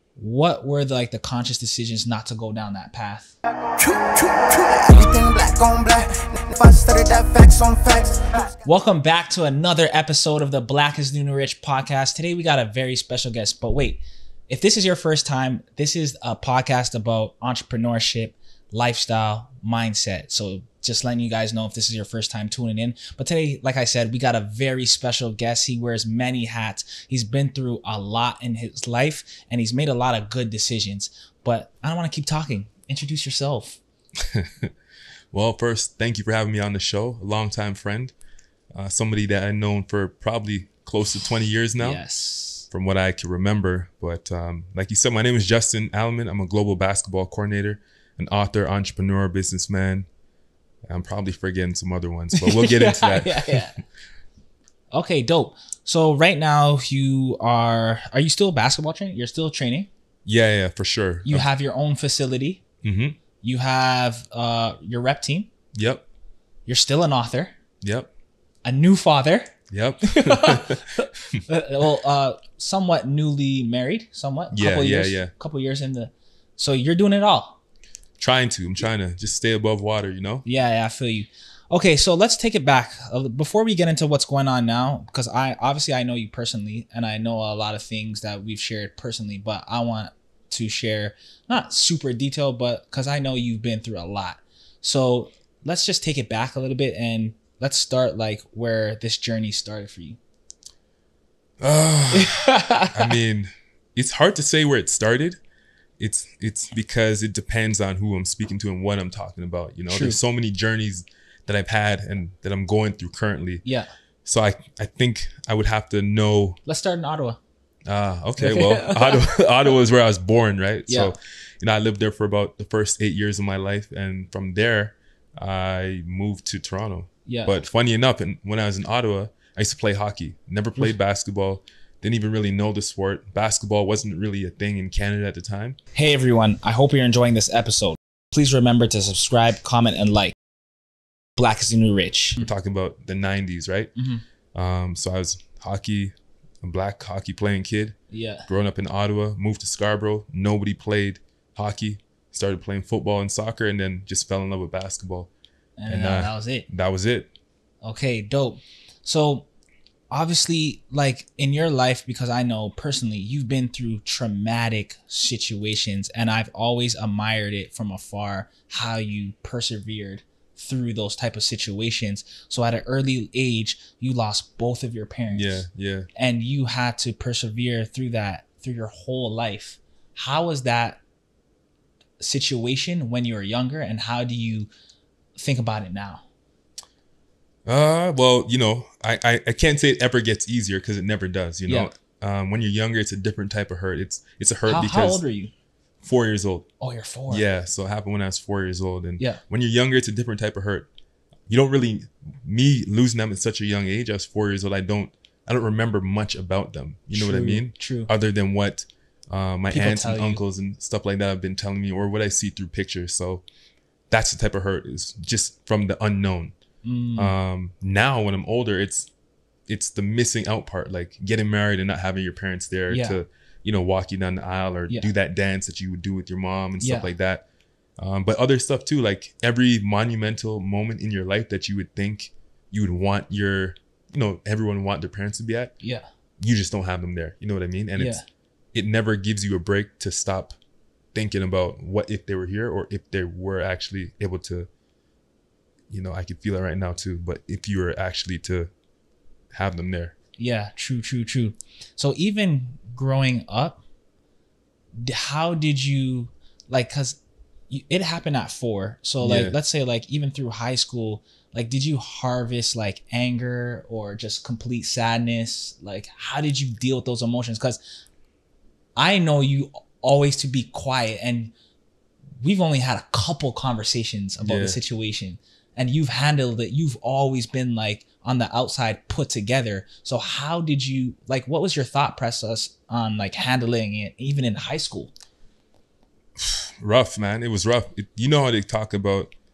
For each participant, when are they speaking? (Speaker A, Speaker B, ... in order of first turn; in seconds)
Speaker A: 0.1-3.4, 8.6-33.8, 41.8-42.7, 52.3-53.8, 54.9-59.9, 61.2-62.6, 63.4-65.5, 66.7-67.5, 68.6-77.6, 80.4-100.2, 102.1-103.2, 109.9-110.2, 113.6-113.9, 116.6-117.4, 118.4-119.3, 120.9-121.1, 127.2-127.5, 135.9-140.3, 141.3-142.4, 143.9-144.2, 148.1-148.5, 155.8-156.7, 157.8-159.4, 160.1-175.6, 176.1-181.0, 182.2-184.7, 185.4-186.2, 194.7-195.5, 196.8-197.5, 207.1-208.1, 209.7-210.4, 216.8-217.3, 222.9-223.2, 226.8-227.1, 238.0-238.2, 250.4-253.8, 255.0-267.8, 269.0-271.5, 272.4-285.1
Speaker B: 3.7-8.6
Speaker C: 34.2-34.7, 35.3-38.1, 38.7-42.0, 42.7-50.1, 50.9-53.6, 60.2-61.5, 62.8-63.2, 65.7-66.0, 67.8-68.1, 69.7-71.4, 74.5-75.3, 78.2-80.4, 101.6-105.4, 106.0-113.6, 114.2-116.6, 117.8-135.8, 142.4-143.9, 144.5-147.9, 148.5-155.3, 155.9-157.3, 175.3-176.1, 187.7-195.2, 196.0-196.7, 197.3-200.9, 201.5-213.4, 214.1-216.6, 217.2-219.1, 219.7-227.4, 228.0-235.7, 236.4-238.2, 238.7-240.6, 241.1-244.7, 245.9-248.7, 249.5-250.2, 259.2-259.6, 274.4-274.8, 286.4-289.3